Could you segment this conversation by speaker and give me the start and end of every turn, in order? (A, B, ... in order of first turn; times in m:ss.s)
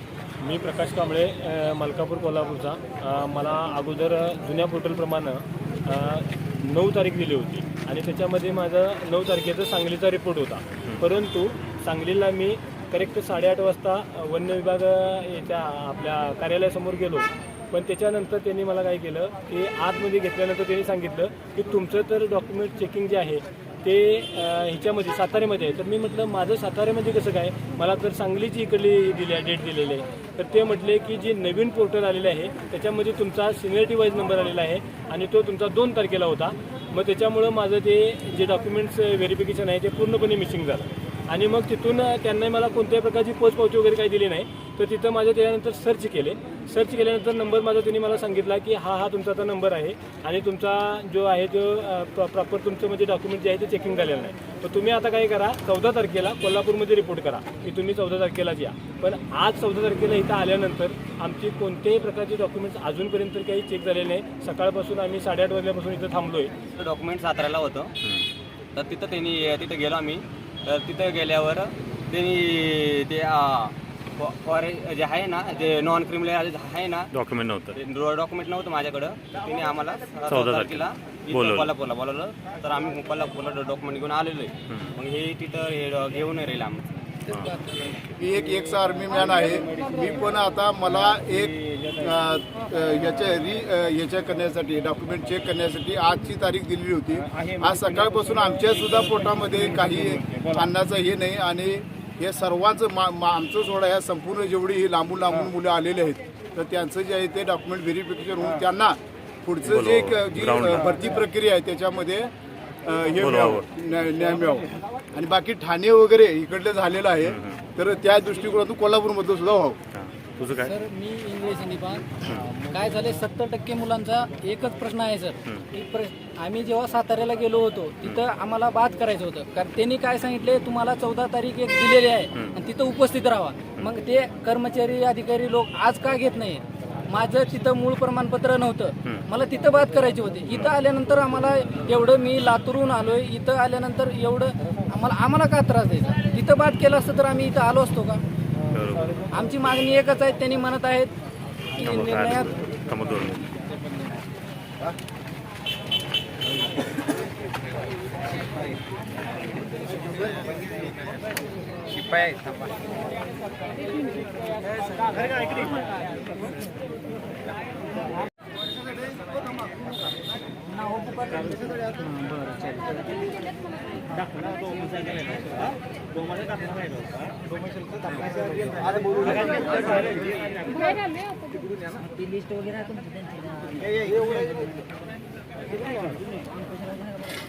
0:00.4-1:06.5 A
1:06.8-1:07.9 B
1:08.8-1:17.1 B
1:17.1-1:17.8 C
1:17.8-1:26.8 B
1:20.3-1:21.8 C
1:24.7-1:25.0 C
1:27.3-1:27.5 C
1:27.3-1:27.9 D
1:28.2-1:52.3 E
1:49.6-1:50.9 C
1:52.8-1:59.8 E
1:53.2-1:53.7 C
1:57.2-1:57.6 C
1:59.9-2:00.7 C
2:00.6-2:02.1 D
2:02.7-2:28.2 D
2:28.7-2:29.2 C
2:29.3-2:31.1 D
2:31.8-2:32.6 D
2:31.8-2:33.5 C